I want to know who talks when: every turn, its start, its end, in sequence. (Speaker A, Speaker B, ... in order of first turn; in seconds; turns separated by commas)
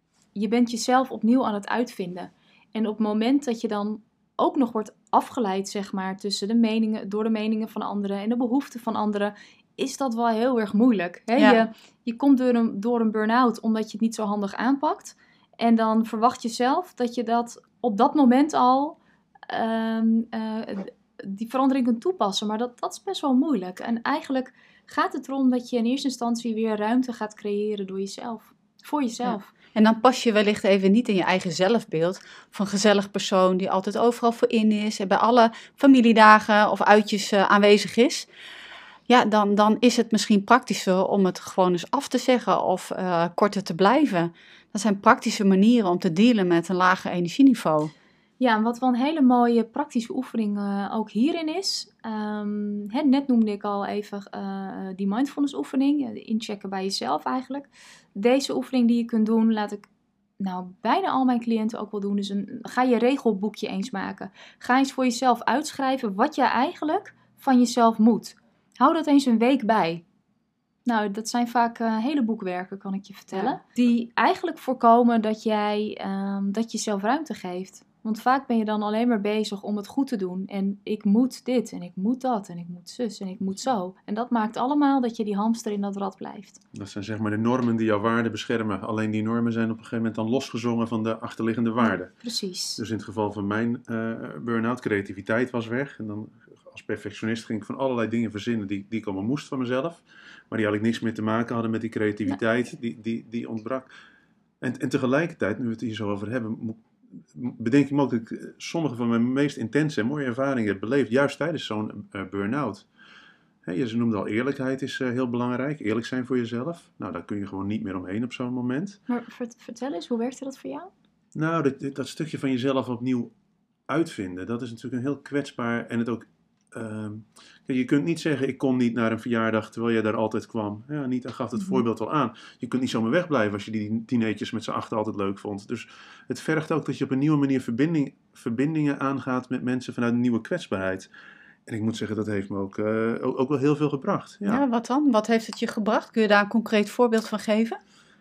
Speaker A: 0.3-29.5, Speaker B: 11.4-11.6, Speaker B: 29.2-38.3, Speaker B: 39.1-47.9, Speaker A: 48.4-59.9, Speaker A: 60.4-70.0, Speaker A: 70.8-86.6, Speaker B: 73.3-73.6, Speaker C: 86.7-92.1, Speaker A: 91.8-92.8, Speaker C: 92.8-103.9, Speaker C: 104.6-112.8, Speaker C: 113.6-119.0, Speaker A: 119.1-120.9, Speaker C: 121.3-123.3, Speaker C: 123.9-141.1, Speaker C: 141.7-144.6, Speaker B: 144.4-147.8